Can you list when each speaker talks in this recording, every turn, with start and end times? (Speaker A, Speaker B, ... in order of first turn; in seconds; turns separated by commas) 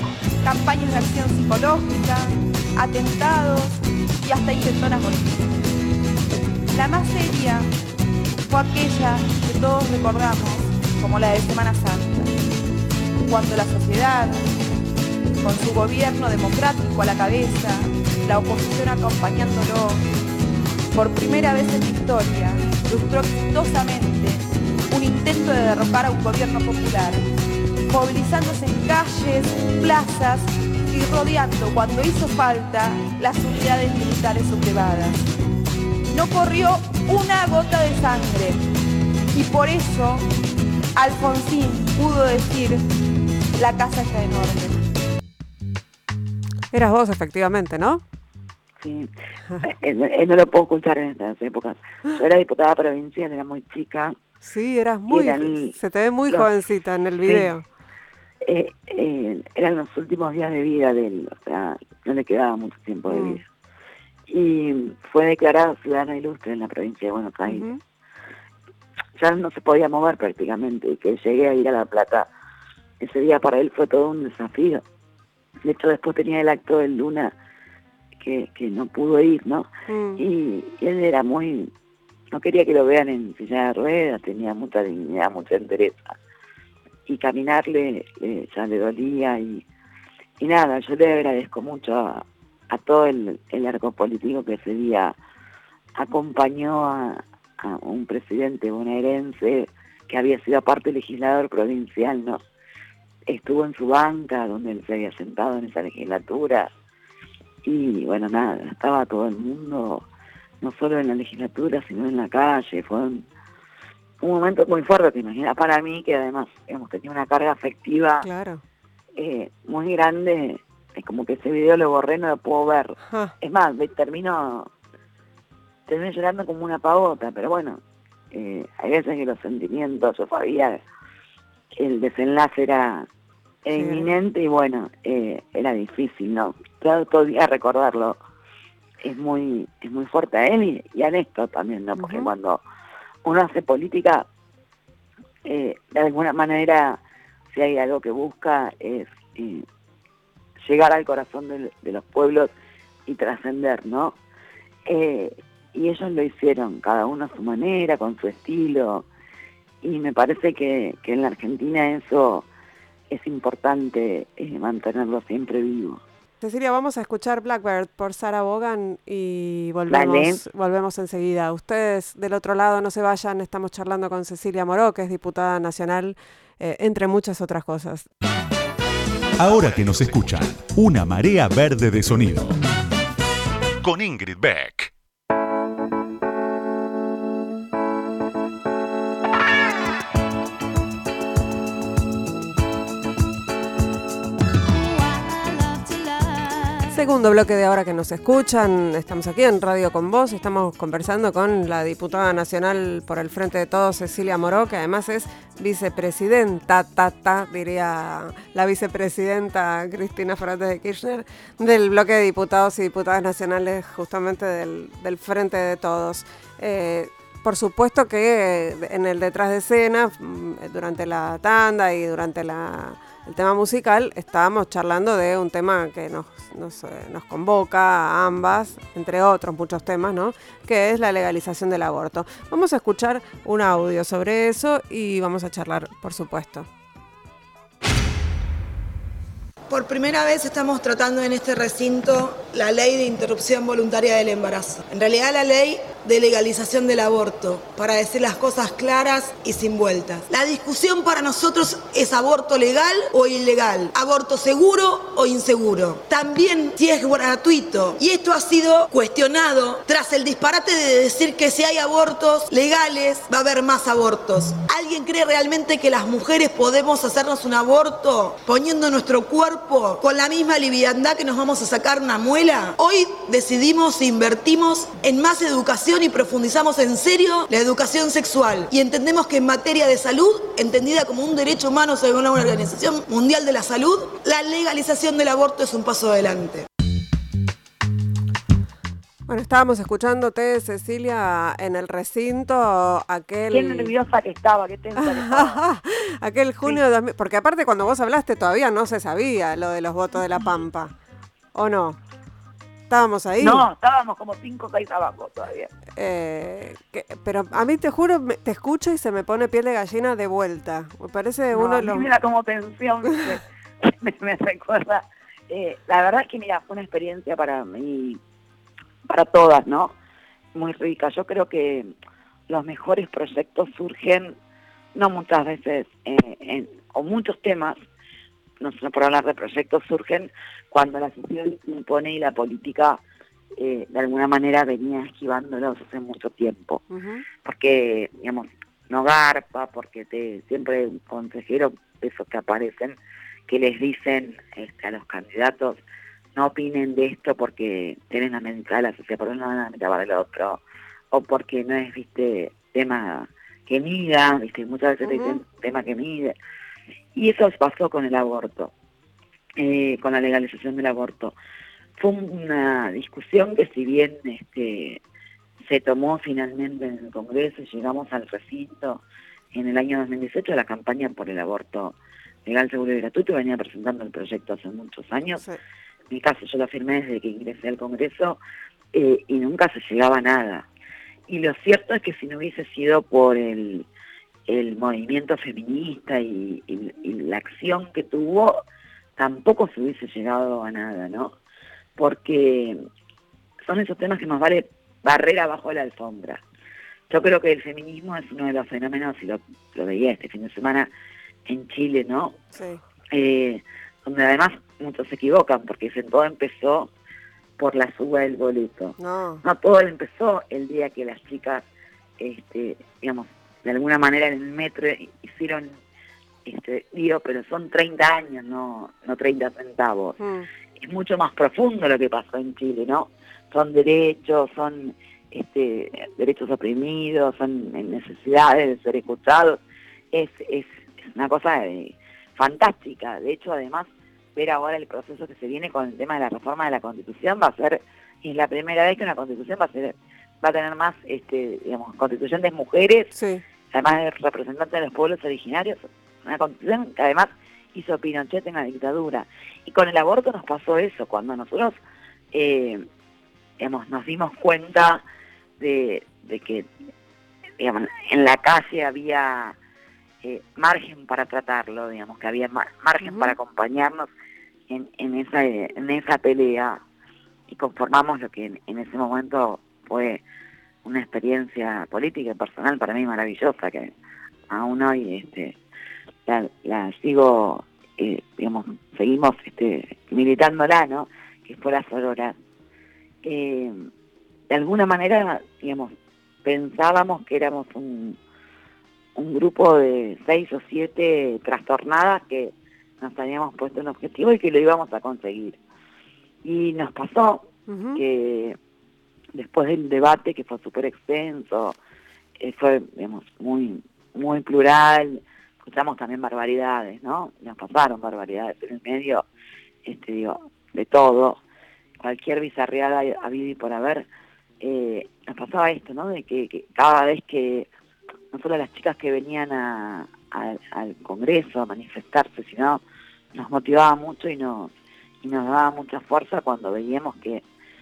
Speaker A: 0.4-5.5, Speaker A: 6.7-7.7, Speaker A: 8.5-12.3, Speaker A: 13.2-14.4, Speaker A: 15.4-20.0, Speaker A: 20.9-27.2, Speaker A: 27.9-35.3, Speaker A: 36.1-38.6, Speaker A: 39.3-40.3, Speaker A: 41.0-42.8, Speaker A: 43.5-44.8, Speaker B: 46.7-48.0, Speaker C: 48.8-54.2, Speaker B: 54.4-57.6, Speaker C: 55.1-55.8, Speaker C: 57.2-57.5, Speaker C: 58.4-63.4, Speaker B: 63.1-63.4, Speaker C: 64.3-67.7, Speaker B: 67.5-67.8, Speaker C: 69.2-72.3, Speaker C: 73.0-74.8, Speaker C: 75.6-77.3, Speaker C: 78.2-81.7, Speaker B: 79.9-80.2, Speaker C: 82.3-86.2, Speaker C: 87.1-89.7, Speaker C: 90.4-95.2, Speaker C: 96.0-102.4, Speaker C: 103.3-106.7, Speaker C: 107.6-110.0, Speaker C: 110.6-113.3, Speaker C: 114.2-118.3, Speaker B: 118.2-118.6, Speaker C: 119.2-124.7, Speaker C: 125.9-127.8, Speaker C: 128.3-130.8, Speaker C: 131.8-133.1, Speaker C: 133.7-138.2, Speaker B: 133.7-134.1, Speaker C: 139.0-142.6, Speaker B: 142.0-142.3, Speaker C: 143.2-144.3, Speaker C: 145.4-147.0, Speaker C: 147.5-149.7, Speaker C: 150.6-152.5, Speaker C: 153.1-154.2, Speaker C: 154.9-159.1, Speaker C: 159.8-162.5, Speaker C: 163.1-166.0, Speaker B: 166.4-178.1, Speaker C: 169.9-170.4, Speaker D: 179.4-182.6, Speaker D: 183.8-184.9, Speaker B: 196.9-236.7, Speaker E: 239.7-286.7, Speaker B: 289.3-293.9, Speaker C: 293.5-295.6, Speaker B: 295.0-300.9, Speaker B: 301.5-302.0, Speaker B: 302.9-303.7, Speaker C: 303.4-305.7, Speaker B: 306.0-312.1, Speaker C: 311.5-318.2, Speaker C: 319.1-319.9, Speaker C: 320.5-321.9, Speaker C: 322.5-324.4, Speaker C: 324.9-327.8, Speaker C: 328.6-333.0, Speaker C: 333.6-336.8, Speaker B: 336.9-337.2, Speaker C: 337.4-345.8, Speaker C: 346.4-350.6, Speaker C: 351.1-356.4, Speaker B: 355.0-355.4, Speaker C: 357.1-358.7, Speaker C: 359.6-361.3, Speaker C: 362.0-365.0, Speaker C: 365.7-369.0, Speaker C: 369.5-375.4, Speaker C: 376.1-378.4, Speaker C: 378.9-380.7, Speaker C: 381.3-383.9, Speaker C: 384.5-388.6, Speaker C: 389.2-391.4, Speaker C: 392.0-392.9, Speaker C: 393.7-396.4, Speaker C: 397.1-400.9, Speaker C: 401.5-402.4, Speaker B: 402.5-402.8, Speaker C: 403.1-406.9, Speaker C: 407.6-411.7, Speaker B: 409.0-409.4, Speaker C: 412.2-415.8, Speaker C: 416.5-420.2, Speaker B: 420.2-420.5, Speaker C: 420.8-429.6, Speaker C: 430.1-443.1, Speaker B: 443.1-443.4, Speaker C: 443.7-451.8, Speaker C: 452.3-452.9, Speaker C: 453.6-455.0, Speaker C: 455.6-456.7, Speaker C: 457.6-459.6, Speaker C: 460.2-464.1, Speaker B: 463.0-463.3, Speaker C: 464.7-466.8, Speaker C: 467.5-470.2, Speaker C: 470.8-473.9, Speaker C: 474.5-475.6, Speaker C: 476.3-482.4, Speaker C: 483.2-483.9, Speaker C: 484.5-488.2, Speaker C: 489.2-495.6, Speaker C: 496.4-498.6, Speaker B: 497.7-498.0, Speaker C: 499.3-501.8, Speaker C: 502.4-509.2, Speaker C: 509.9-511.4, Speaker C: 512.0-514.1, Speaker C: 514.6-517.7, Speaker C: 518.3-522.8, Speaker C: 523.3-524.7, Speaker C: 525.2-527.4